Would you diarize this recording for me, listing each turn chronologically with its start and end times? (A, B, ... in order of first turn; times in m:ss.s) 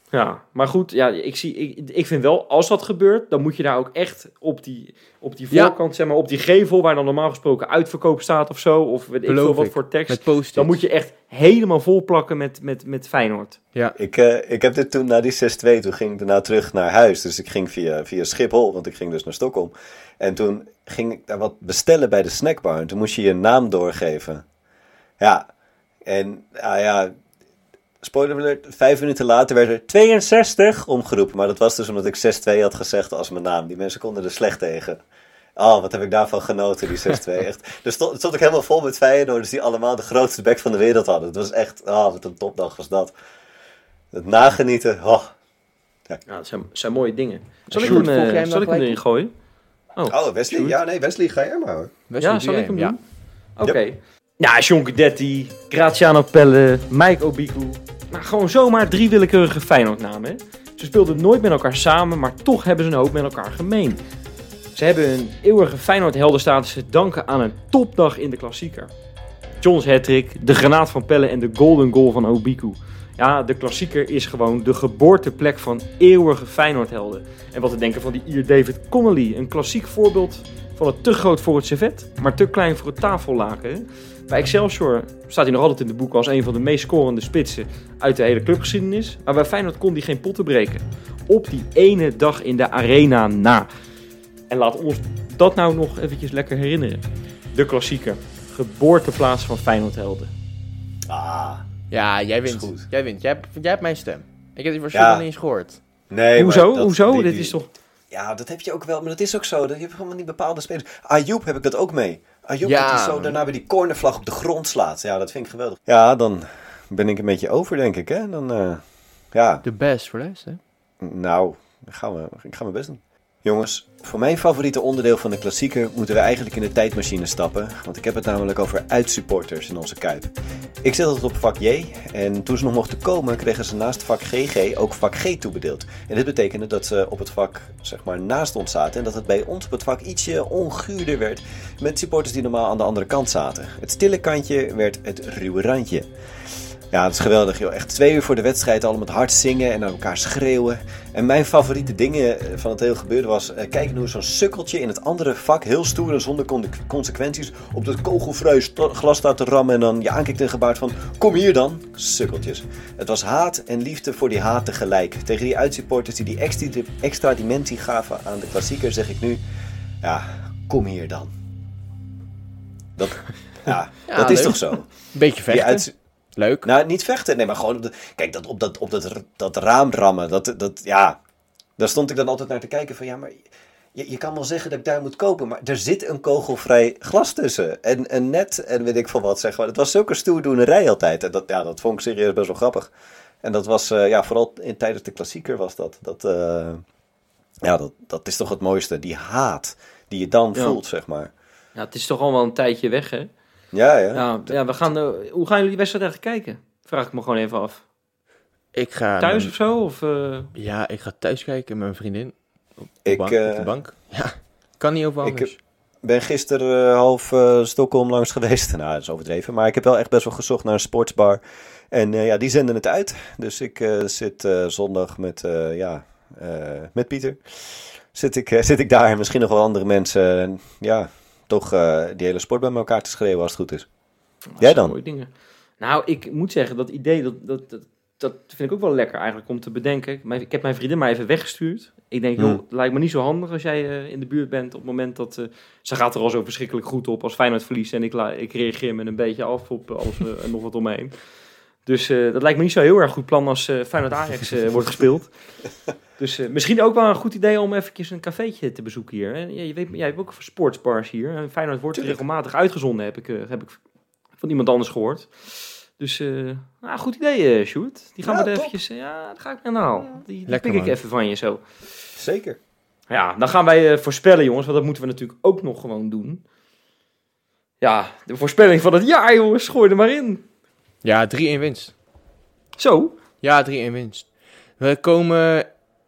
0:00.1-0:13.6 A
0:09.2-0:10.8 B
0:14.0-0:24.4 C
0:25.2-0:25.5 C
0:26.0-0:27.1 C
0:28.0-0:35.0 C
0:35.6-0:43.1 C
0:44.1-0:45.3 C
0:46.3-0:49.3 A
0:47.7-0:49.0 B
0:50.0-0:50.8 A
0:50.1-0:51.9 C
0:52.1-0:52.9 B
0:52.2-0:53.0 A
0:53.6-1:04.0 A
1:04.7-1:08.9 A
1:09.6-1:33.7 A
1:34.5-1:37.0 A
1:37.5-1:40.3 A
1:41.1-1:41.6 C
1:41.9-1:45.8 B
1:42.4-1:42.8 C
1:44.9-1:45.2 C
1:46.1-1:47.6 C
1:46.4-1:47.7 A
1:48.1-1:59.6 C
1:52.6-1:53.4 B
1:59.6-2:00.6 B
2:01.0-2:10.3 C
2:10.8-2:26.1 C
2:26.9-2:49.4 C
2:50.0-2:51.3 C
2:53.0-2:54.9 C
2:54.1-2:56.7 B
2:55.5-2:55.9 C
2:56.6-3:01.2 C
3:01.8-3:16.8 C
3:17.6-3:21.3 C
3:21.7-3:23.3 A
3:23.7-3:24.6 C
3:24.1-3:27.8 A
3:28.7-3:29.5 B
3:29.2-3:30.5 A
3:30.5-3:35.6 B
3:33.0-3:33.7 C
3:35.2-3:35.5 C
3:36.0-3:53.9 C
3:54.5-3:55.3 A
3:54.6-3:55.0 C
3:55.8-4:11.1 A
4:11.8-4:15.3 A
4:16.2-4:23.8 A
4:21.9-4:22.2 C
4:24.4-4:31.6 A
4:28.2-4:28.8 C
4:30.5-4:30.9 B
4:32.2-4:32.6 C
4:33.1-4:36.4 A
4:37.8-4:40.4 A
4:41.0-4:41.9 B
4:42.8-4:43.1 A
4:43.4-4:45.7 B